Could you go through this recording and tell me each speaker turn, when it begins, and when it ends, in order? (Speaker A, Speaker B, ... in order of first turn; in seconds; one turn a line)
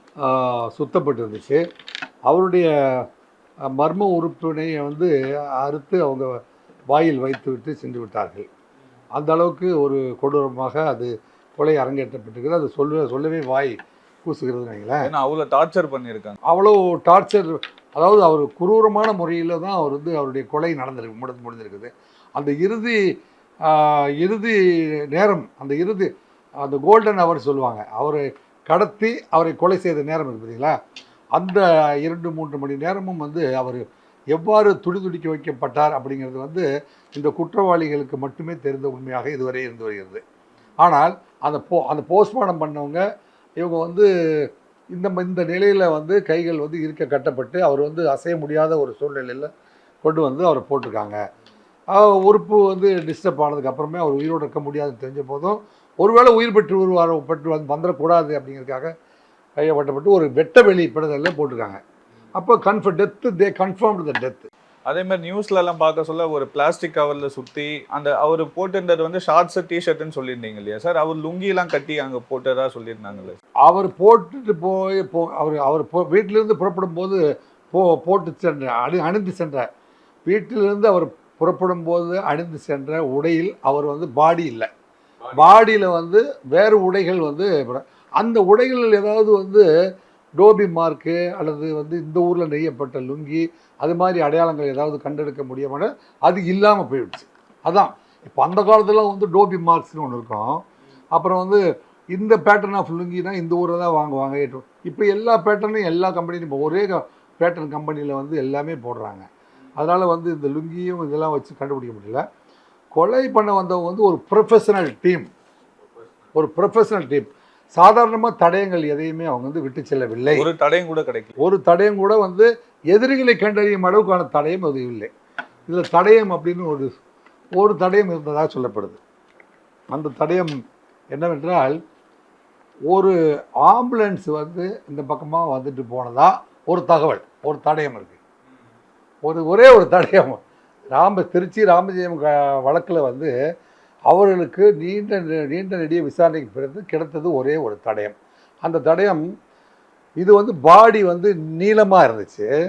Speaker A: 0.2-1.6
Speaker A: 2.3-3.1
Speaker A: 3.7-6.4
Speaker A: 6.9-8.5
Speaker A: 9.2-15.1
Speaker B: 15.0-16.4
Speaker A: 16.5-23.0
Speaker A: 23.6-26.1
Speaker A: 26.6-30.8
Speaker A: 31.4-40.2
Speaker A: 40.8-43.0
Speaker A: 43.6-44.1
Speaker A: 44.9-49.5
Speaker A: 50.0-51.2
Speaker A: 51.9-58.9
Speaker A: 59.6-61.8
Speaker A: 62.4-64.5
Speaker B: 64.9-73.4
Speaker A: 73.6-77.2
Speaker A: 77.7-79.7
Speaker A: 80.3-84.7
Speaker A: 85.3-89.7
Speaker A: 90.4-100.6
Speaker A: 101.1-101.6
Speaker A: 102.1-112.2
Speaker A: 113.0-115.3
Speaker A: 116.3-120.5
Speaker B: 120.3-121.4
Speaker A: 121.4-125.1
Speaker A: 125.7-126.9
Speaker A: 127.6-129.0
Speaker A: 129.9-130.6
Speaker A: 131.1-131.8
Speaker A: 132.9-138.2
Speaker A: 139.2-140.4
Speaker A: 140.9-143.3
Speaker A: 144.1-149.2
Speaker A: 150.2-152.5